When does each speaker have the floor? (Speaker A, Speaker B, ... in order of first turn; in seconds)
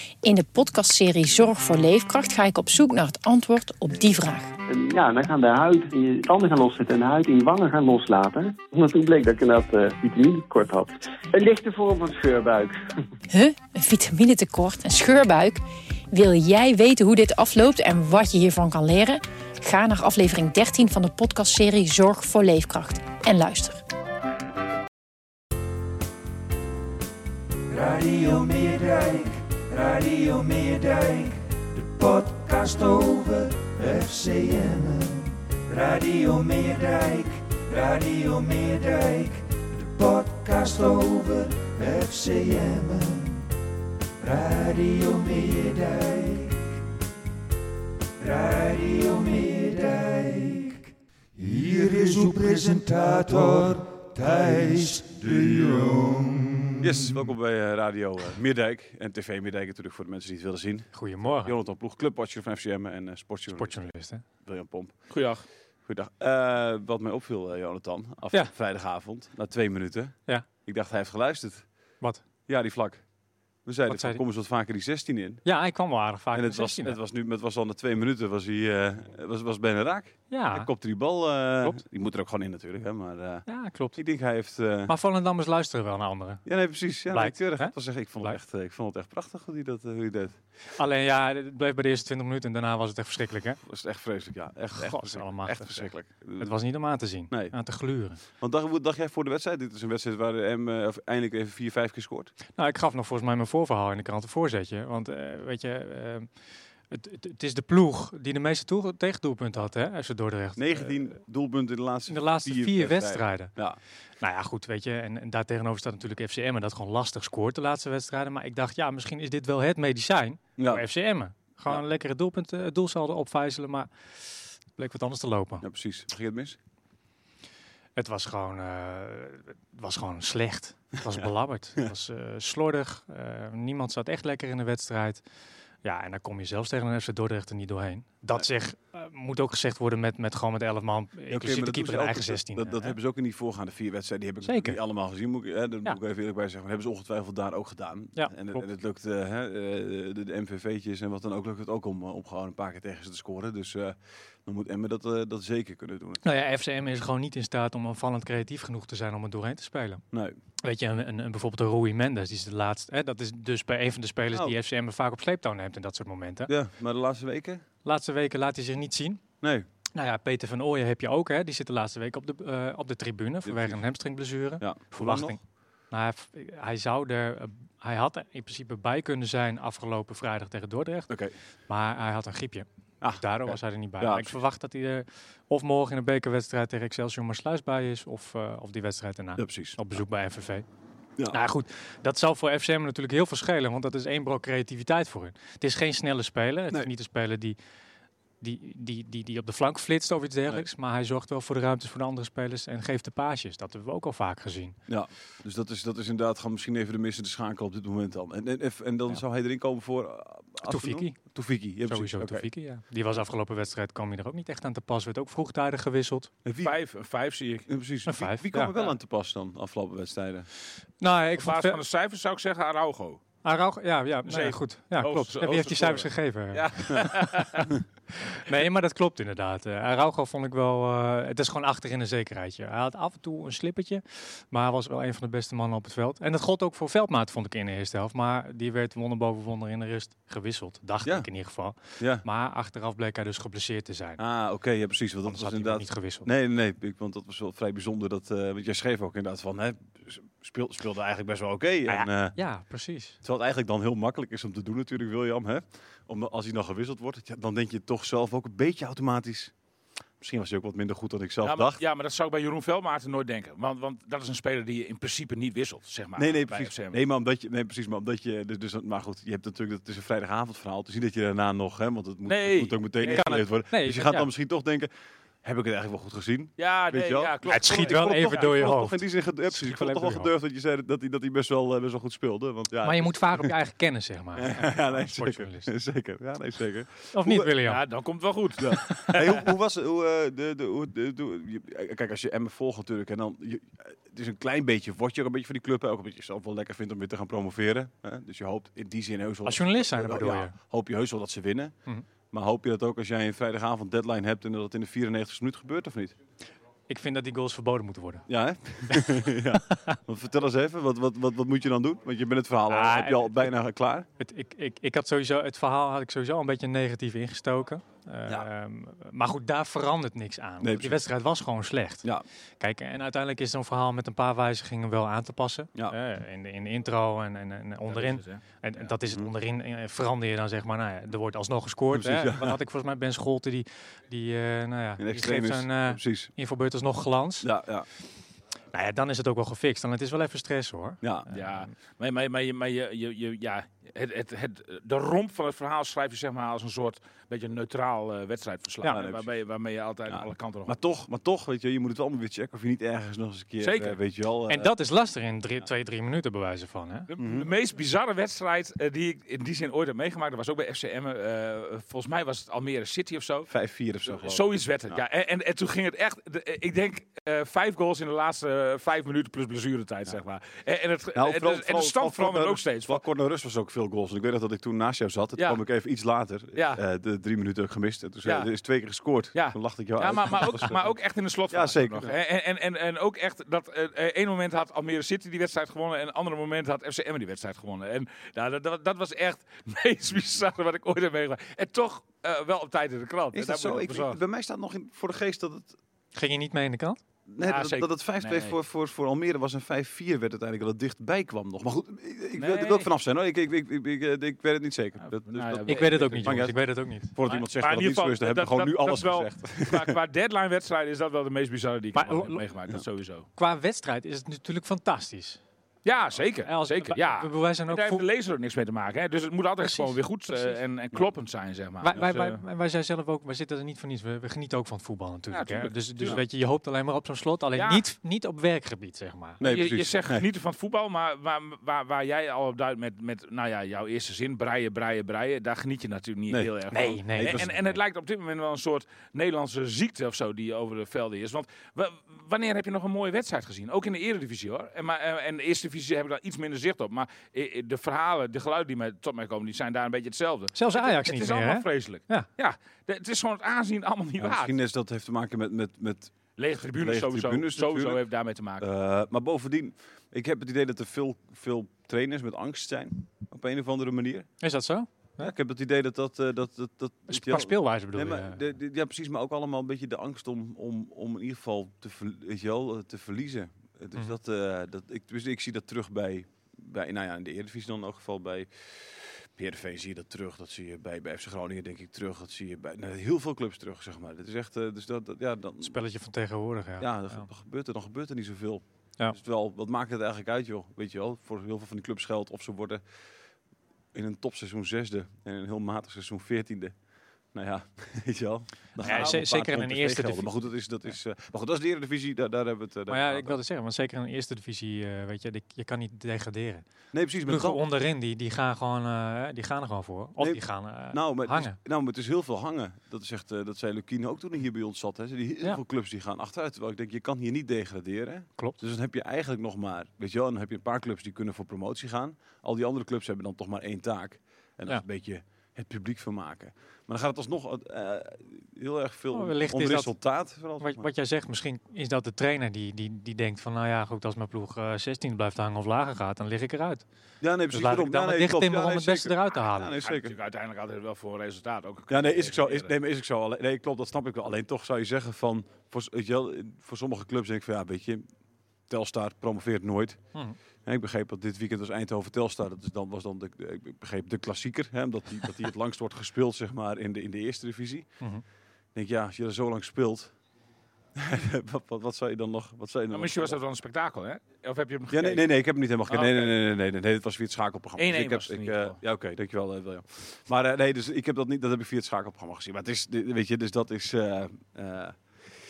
Speaker A: 0.2-4.5, 13.3-23.8
Speaker B: 4.7-12.8
Speaker C: 27.7-43.5, 44.2-46.7, 48.2-57.1
Speaker D: 56.8-63.9, 64.4-65.1, 65.9-71.7, 72.5-73.0, 73.7-75.5, 76.3-84.9, 86.5-90.4, 93.6-96.5, 97.3-97.5, 98.3-102.3, 110.6-113.8, 120.6-120.8, 125.6-126.6, 141.3-156.2, 160.1-160.4, 166.5-167.6, 169.4-169.7, 173.4-173.8, 174.6-175.4, 183.0-184.3, 189.4-190.0, 204.9-212.5, 216.4-216.8, 217.7-220.5, 242.0-242.2, 244.2-252.4, 253.2-259.5, 260.2-261.8, 266.2-274.9, 275.4-283.6, 284.4-287.5, 288.6-301.8, 302.3-306.1, 308.3-314.1, 320.6-321.0, 331.9-332.6, 335.0-336.3, 337.4-337.9, 341.0-341.3, 348.9-349.3, 350.1-354.7, 357.2-357.5, 363.5-365.0, 371.1-380.9, 381.5-382.1, 393.3-395.8, 397.3-410.0, 429.4-430.2, 437.1-437.7, 454.2-456.1, 456.8-458.0, 458.6-464.3, 465.2-485.8, 486.8-492.8, 493.9-496.8, 497.3-503.4, 506.9-507.6, 510.2-530.9, 537.2-540.1, 541.9-548.0, 548.7-550.0, 550.6-557.9, 558.8-560.1, 561.0-563.4, 564.9-575.0
Speaker E: 60.9-61.6, 63.5-64.2, 73.9-74.2, 75.5-77.0, 80.3-80.7, 83.5-84.0, 84.9-86.4, 87.1-88.4, 90.8-93.6, 94.7-98.2, 102.6-106.3, 106.9-111.0, 112.1-113.5, 114.2-125.7, 128.0-135.2, 135.8-142.9, 144.4-144.8, 148.2-148.7, 156.2-160.0, 160.6-166.5, 167.8-169.2, 169.9-175.4, 175.9-181.1, 181.7-190.7, 191.3-197.6, 198.4-204.8, 210.6-211.2, 211.9-216.3, 218.1-218.7, 221.0-221.8, 223.4-227.7, 228.3-244.2, 245.2-246.3, 251.9-253.2, 273.0-274.3, 277.5-280.3, 282.8-285.7, 287.1-287.8, 299.4-300.6, 306.9-308.3, 308.9-310.0, 312.7-313.5, 314.2-322.1, 322.6-337.5, 338.7-341.7, 354.5-357.1, 396.1-397.0, 405.7-407.4, 411.9-412.4, 413.4-415.4, 416.4-418.1, 419.6-420.6, 421.8-429.4, 436.7-437.5, 450.6-452.3, 464.4-465.3, 467.1-468.4, 485.6-487.3, 498.8-500.3, 502.9-506.7, 507.3-511.6, 529.1-529.9, 530.6-536.9, 537.5-539.8
Speaker F: 65.1-65.4, 216.6-217.7, 221.4-223.2, 224.3-227.7, 261.4-267.0, 272.3-273.5, 276.6-278.7, 287.6-289.4, 327.9-328.4, 341.3-350.8, 353.6-354.0, 357.1-363.5, 364.1-373.0, 376.6-376.8, 378.2-378.5, 379.3-394.2, 397.4-398.6, 402.4-402.9, 405.0-406.4, 407.6-413.3, 415.9-422.4, 425.3-426.2, 427.6-427.8, 429.4-454.6, 456.4-458.7, 539.8-542.7, 562.9-565.3, 565.9-566.4, 567.8-568.8